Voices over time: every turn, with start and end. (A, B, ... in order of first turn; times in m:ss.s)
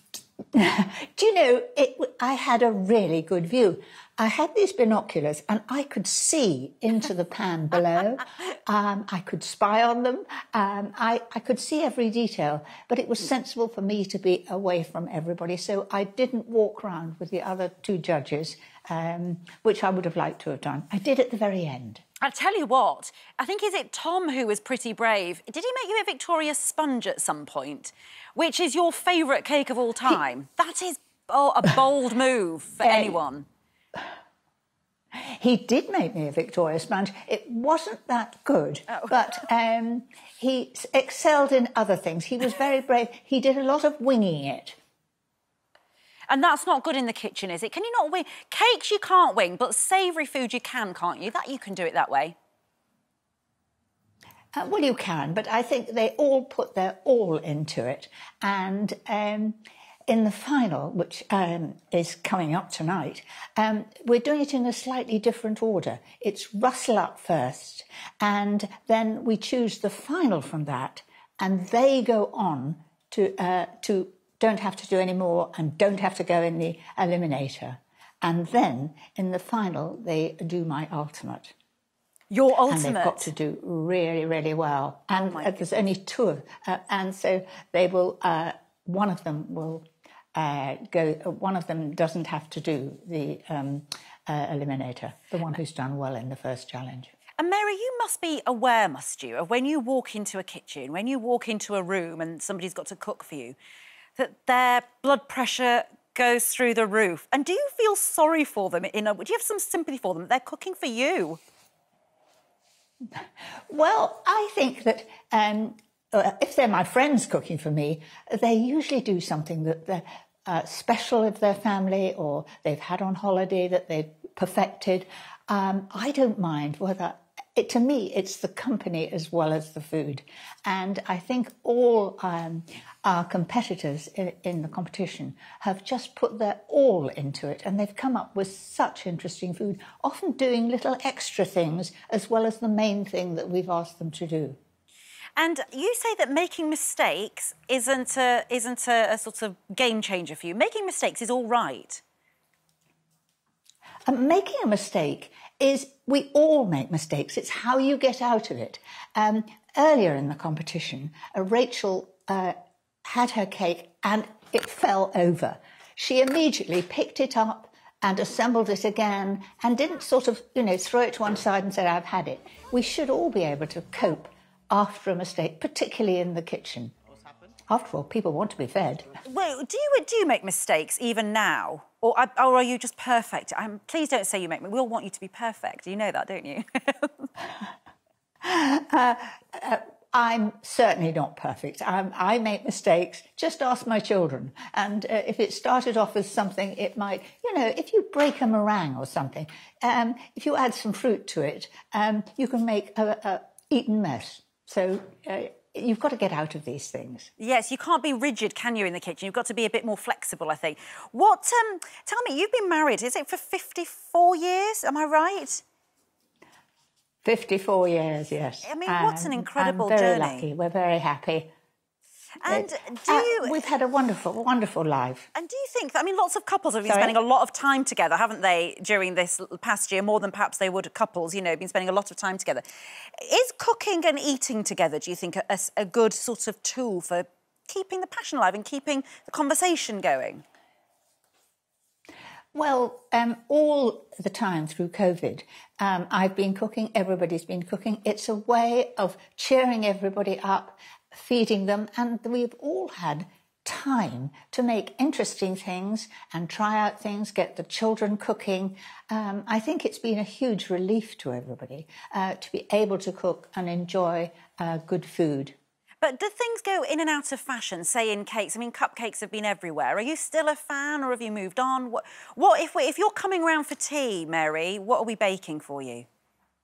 0:00.5-0:22.0 A
0:22.2-0:33.5 B
0:32.8-0:33.2 A
0:35.1-0:44.8 A
0:38.9-0:39.1 B
0:46.3-0:52.4 B
0:54.5-1:21.5 A
1:22.3-1:23.3 B
1:22.7-1:37.1 A
1:25.2-1:25.6 B
1:37.4-1:43.6 B
1:44.2-1:51.4 B
1:53.1-2:24.6 A
2:25.4-2:32.0 B
2:34.1-2:56.9 A
2:57.7-2:59.1 A
2:59.2-3:07.3 B
3:08.4-3:27.3 A
3:27.4-3:35.6 B
3:37.2-3:41.5 A
3:38.6-3:40.4 B
3:42.4-3:43.6 B
3:42.5-3:45.3 A
3:45.3-3:52.6 B
3:46.8-3:47.1 A
3:53.2-4:00.4 B
4:02.5-4:25.6 A
4:26.0-4:36.0 B